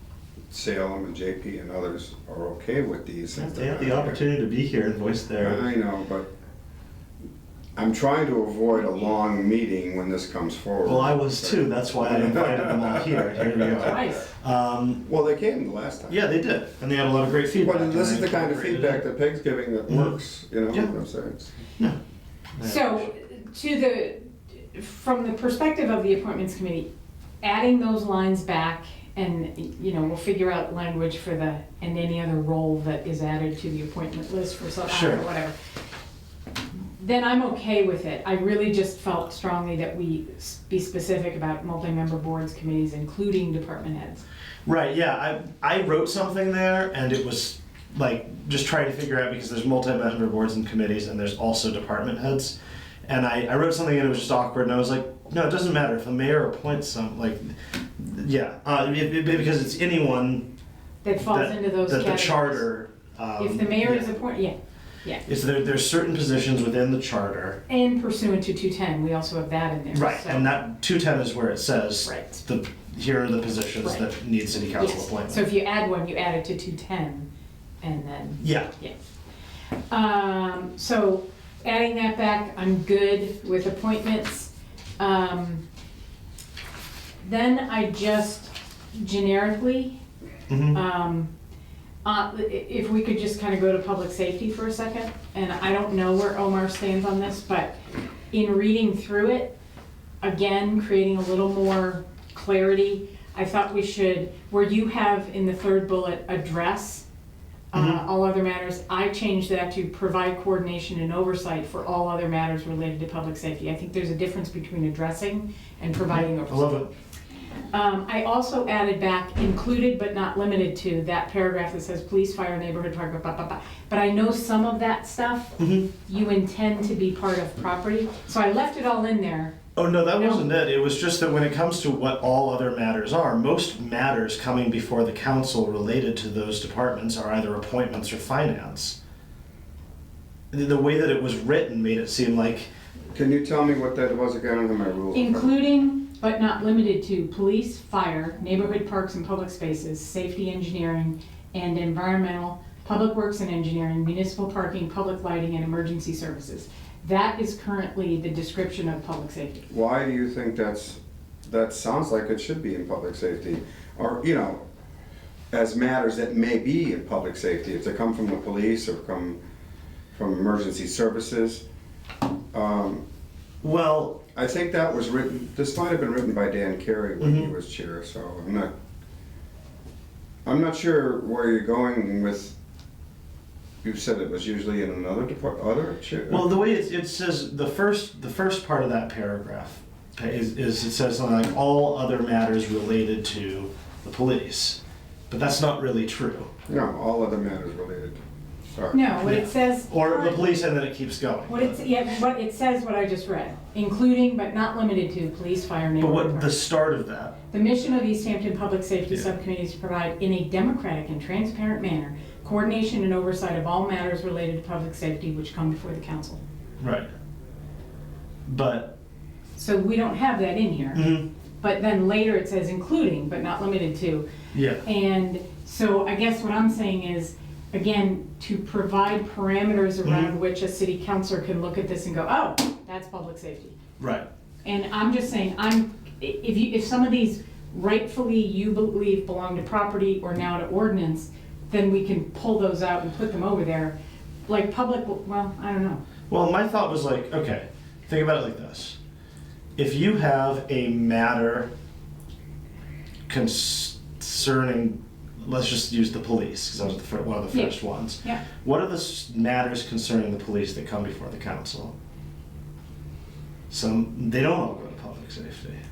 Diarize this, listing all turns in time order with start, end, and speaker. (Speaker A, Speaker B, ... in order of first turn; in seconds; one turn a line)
Speaker A: 0.5-4.2
Speaker B: 3.4-5.6
Speaker A: 5.4-6.3
Speaker A: 7.8-13.7
Speaker B: 10.8-15.0
Speaker C: 13.8-14.3
Speaker A: 15.1-16.2
Speaker B: 16.1-19.0
Speaker A: 17.5-21.5
Speaker B: 19.9-20.2
Speaker B: 22.6-23.1
Speaker C: 22.6-24.2
Speaker C: 24.7-26.9
Speaker C: 27.4-35.5
Speaker B: 34.9-35.2
Speaker C: 37.0-44.2
Speaker B: 44.7-60.5
Speaker C: 61.0-62.6
Speaker B: 61.2-64.1
Speaker C: 63.4-65.2
Speaker B: 65.3-67.6
Speaker C: 67.7-70.5
Speaker B: 69.9-75.5
Speaker C: 72.0-72.4
Speaker C: 74.8-77.3
Speaker C: 77.8-78.9
Speaker B: 78.4-78.7
Speaker C: 79.9-85.6
Speaker C: 87.2-90.0
Speaker B: 90.5-90.8
Speaker C: 90.7-91.3
Speaker C: 92.0-97.8
Speaker C: 98.3-99.5
Speaker C: 100.2-107.0
Speaker C: 107.7-116.9
Speaker B: 107.7-108.0
Speaker B: 116.1-116.9
Speaker C: 117.7-129.6
Speaker B: 125.6-125.9
Speaker B: 129.8-139.0
Speaker C: 130.2-130.5
Speaker B: 140.5-142.7
Speaker A: 143.1-145.5
Speaker C: 145.1-159.7
Speaker A: 159.7-164.6
Speaker A: 165.5-169.4
Speaker A: 170.1-171.7
Speaker A: 172.5-173.0
Speaker B: 173.6-174.2
Speaker A: 174.3-178.7
Speaker B: 177.2-177.5
Speaker A: 180.4-182.6
Speaker A: 183.8-186.5
Speaker B: 186.3-194.8
Speaker B: 195.3-196.5
Speaker A: 196.7-198.2
Speaker A: 198.7-199.0
Speaker C: 198.9-200.8
Speaker B: 199.2-201.8
Speaker C: 201.5-206.5
Speaker B: 206.0-207.3
Speaker C: 207.5-216.4
Speaker B: 216.8-217.1
Speaker B: 218.5-218.9
Speaker C: 219.6-221.1
Speaker B: 220.9-221.3
Speaker C: 221.6-224.3
Speaker B: 224.5-224.8
Speaker C: 224.8-233.8
Speaker B: 230.0-230.3
Speaker B: 234.0-234.3
Speaker C: 234.6-243.9
Speaker C: 244.5-246.0
Speaker B: 246.3-249.0
Speaker B: 249.8-251.7
Speaker B: 253.3-261.9
Speaker C: 257.5-258.4
Speaker B: 263.7-265.8